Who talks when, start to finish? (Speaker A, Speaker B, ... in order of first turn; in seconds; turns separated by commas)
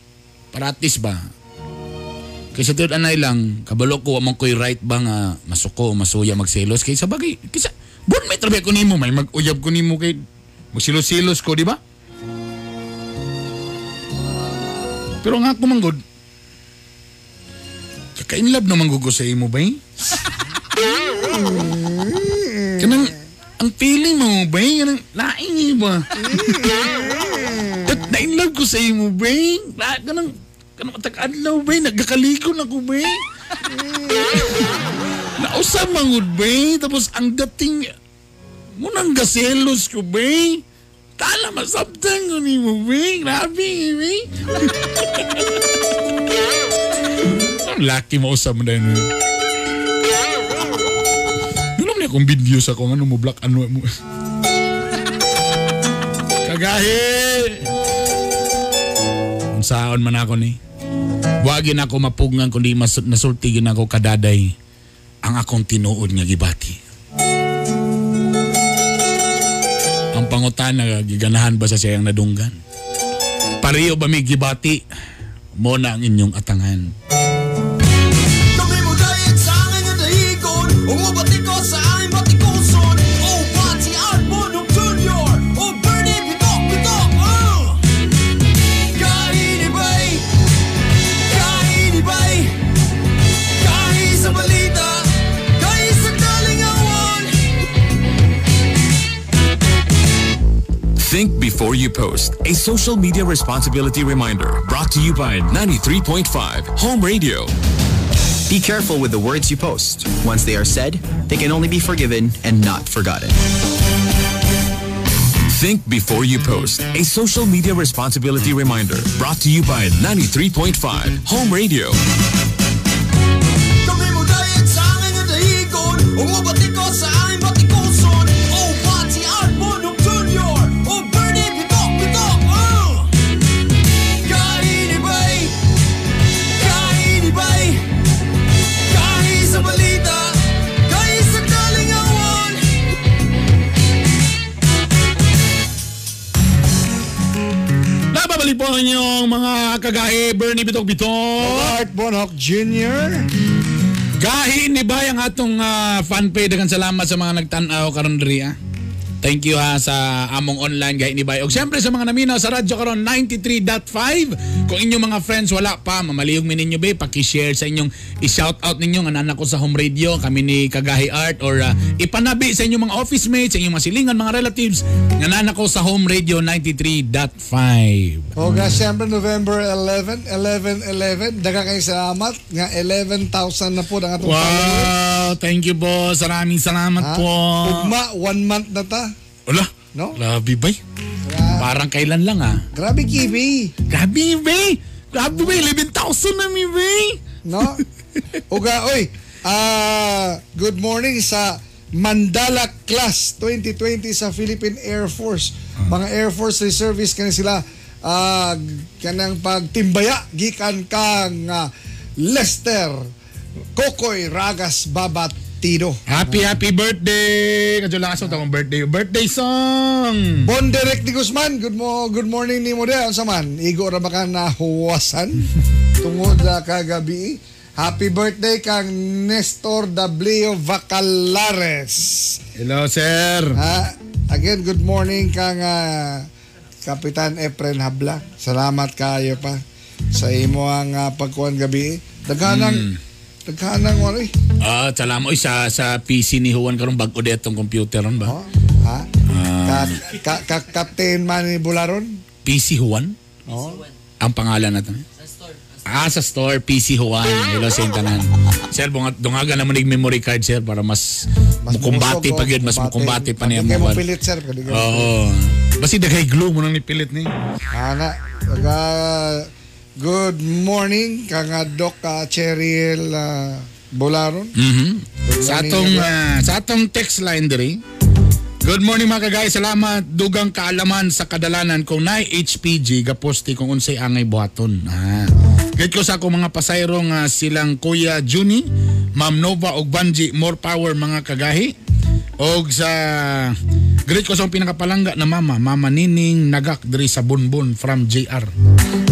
Speaker A: 0.5-1.2, Speaker A: 2.5-10.2, Speaker A: 10.7-11.8, Speaker A: 15.2-16.0, Speaker A: 18.1-19.8, Speaker B: 21.0-23.1, Speaker A: 22.8-26.6, Speaker B: 26.1-28.1, Speaker A: 27.9-33.1, Speaker B: 33.6-34.5, Speaker A: 35.4-37.9, Speaker A: 38.8-40.6, Speaker A: 41.2-45.6, Speaker A: 47.6-49.1, Speaker A: 51.8-53.9, Speaker A: 56.4-57.7, Speaker A: 59.5-60.6, Speaker A: 61.4-64.5, Speaker A: 65.2-66.8, Speaker A: 70.1-72.5, Speaker A: 73.6-74.8, Speaker A: 75.6-76.9, Speaker C: 78.6-87.6, Speaker D: 101.0-107.5, Speaker E: 108.5-113.4, Speaker D: 115.5-122.0, Speaker C: 123.9-132.4, Speaker A: 148.1-151.8, Speaker B: 151.4-153.3, Speaker A: 154.2-158.6, Speaker A: 159.2-178.3, Speaker B: 178.3-184.9, Speaker A: 184.2-187.9, Speaker B: 187.0-189.1, Speaker A: 189.5-190.8, Speaker B: 191.2-191.7, Speaker A: 191.6-192.6, Speaker B: 192.7-193.7, Speaker A: 193.9-197.2, Speaker B: 197.4-197.8, Speaker B: 198.5-211.7, Speaker B: 212.2-213.0, Speaker B: 213.7-216.4, Speaker A: 216.1-220.4, Speaker B: 220.4-225.5, Speaker B: 226.0-232.4, Speaker A: 232.6-233.6, Speaker B: 233.5-236.3, Speaker B: 236.8-239.6, Speaker B: 240.1-242.9, Speaker A: 242.4-243.0, Speaker B: 243.5-244.3, Speaker A: 244.6-248.3, Speaker B: 248.2-249.1, Speaker A: 249.3-250.0, Speaker B: 249.6-252.2, Speaker A: 252.4-253.1, Speaker B: 253.4-253.8, Speaker A: 254.2-255.0, Speaker A: 255.8-261.1, Speaker B: 261.6-265.1, Speaker A: 261.7-264.0, Speaker A: 264.7-267.3, Speaker B: 267.7-269.5, Speaker B: 270.0-274.5, Speaker A: 274.6-277.8, Speaker B: 275.3-276.1, Speaker A: 278.6-291.7, Speaker B: 285.4-285.7, Speaker A: 292.4-293.6, Speaker A: 294.1-298.5